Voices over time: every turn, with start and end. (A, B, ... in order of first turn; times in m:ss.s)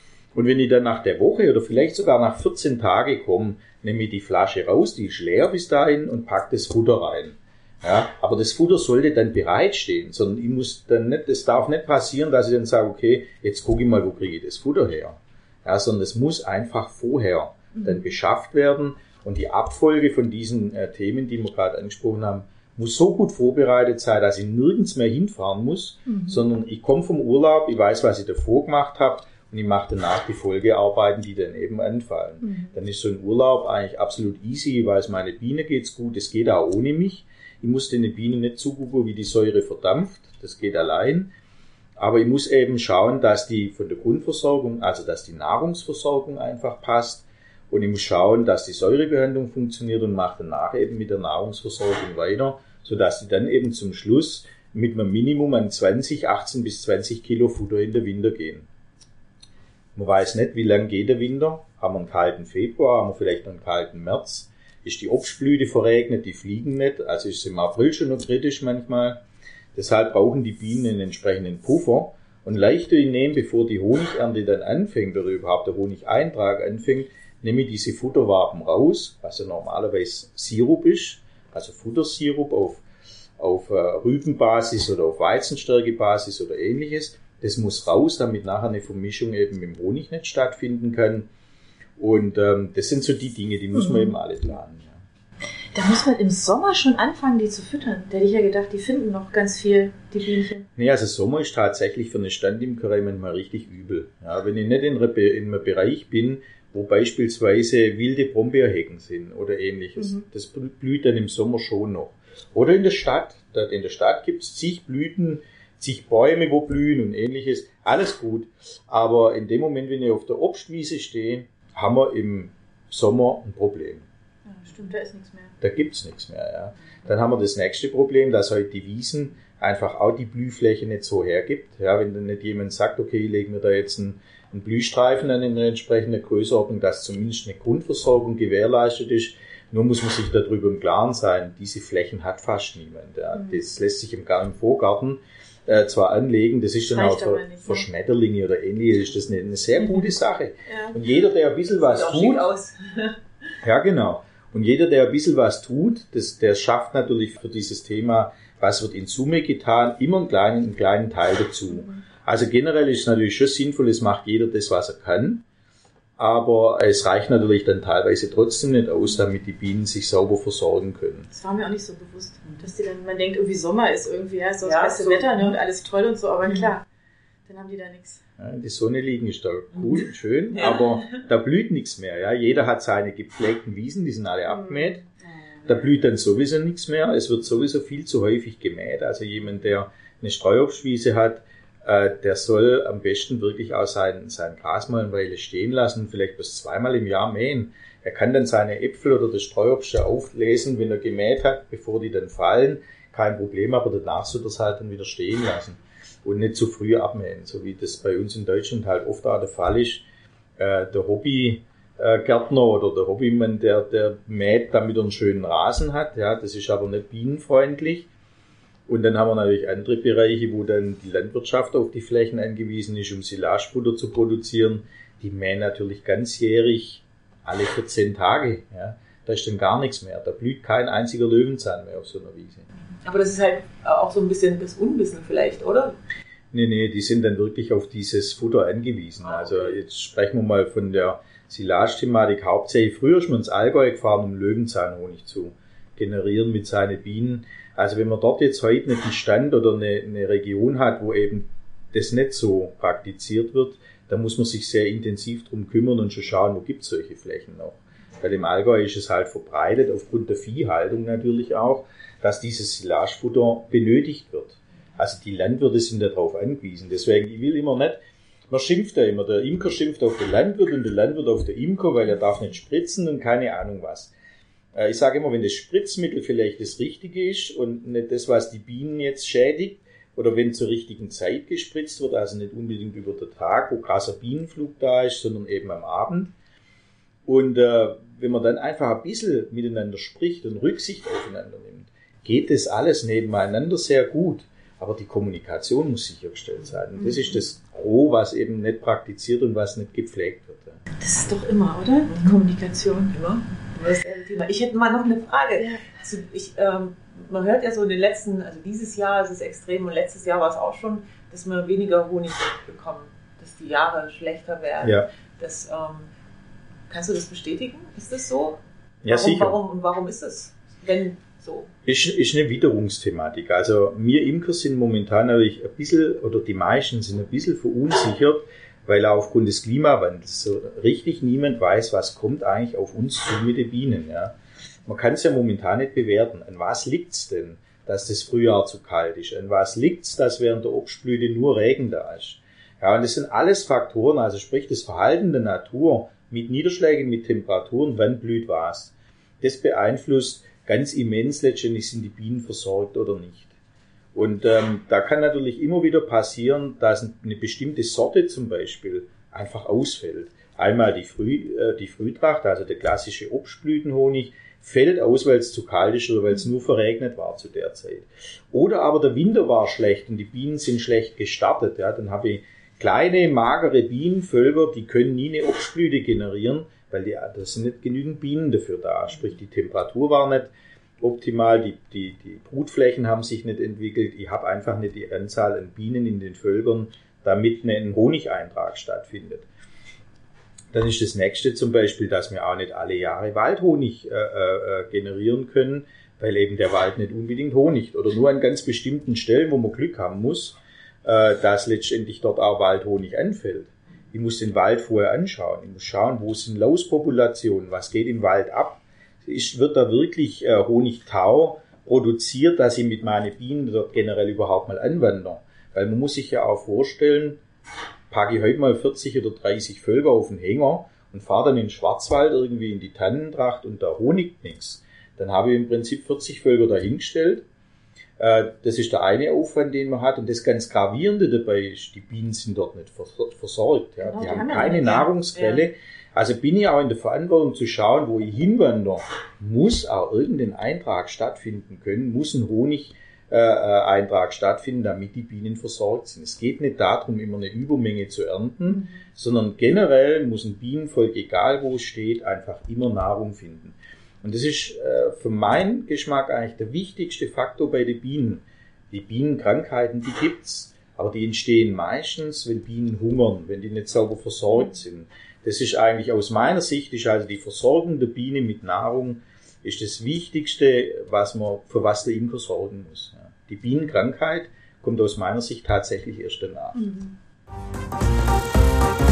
0:00.3-0:41.3 A
0:26.1-0:26.4 B
0:32.4-0:32.7 B
0:42.0-0:58.7 A
1:00.0-1:09.2 A
1:09.7-1:22.8 A
1:23.4-1:31.3 A
1:32.0-1:35.0 A
1:33.7-1:34.1 B
1:35.7-1:40.7 B
1:40.8-2:04.0 A
2:04.4-2:05.5 B
2:05.6-2:32.5 A
2:26.9-2:27.9 B
2:30.7-2:31.0 B
2:31.8-2:33.2 C
2:33.6-2:45.4 A
2:41.7-2:42.0 B
2:46.2-2:51.3 A
2:51.3-2:56.8 B
2:54.6-2:55.5 C
2:56.4-2:56.7 C
2:57.4-2:58.2 B
2:58.4-3:05.0 A
2:59.8-3:01.2 C
3:04.5-3:05.1 B
3:05.6-3:30.0 A
3:30.6-3:38.1 A
3:38.9-3:52.6 A
3:53.0-3:56.0 C
3:56.5-4:34.1 A
3:59.2-3:59.8 C
4:34.7-4:46.3 A
4:47.2-5:00.8 A
4:57.0-4:57.4 B
5:01.0-5:03.1 B
5:02.1-5:16.1 C
5:14.8-5:15.1 A
5:16.9-5:21.7 C
5:19.0-5:19.6 A
5:21.8-5:34.3 A
5:34.9-5:53.5 A
5:54.1-6:29.5 A
6:30.7-6:57.4 A
6:58.1-7:07.4 A
7:08.2-7:56.9 A
7:14.0-7:15.1 B
7:15.3-7:15.6 C
7:28.7-7:29.0 B
7:56.7-7:57.1 B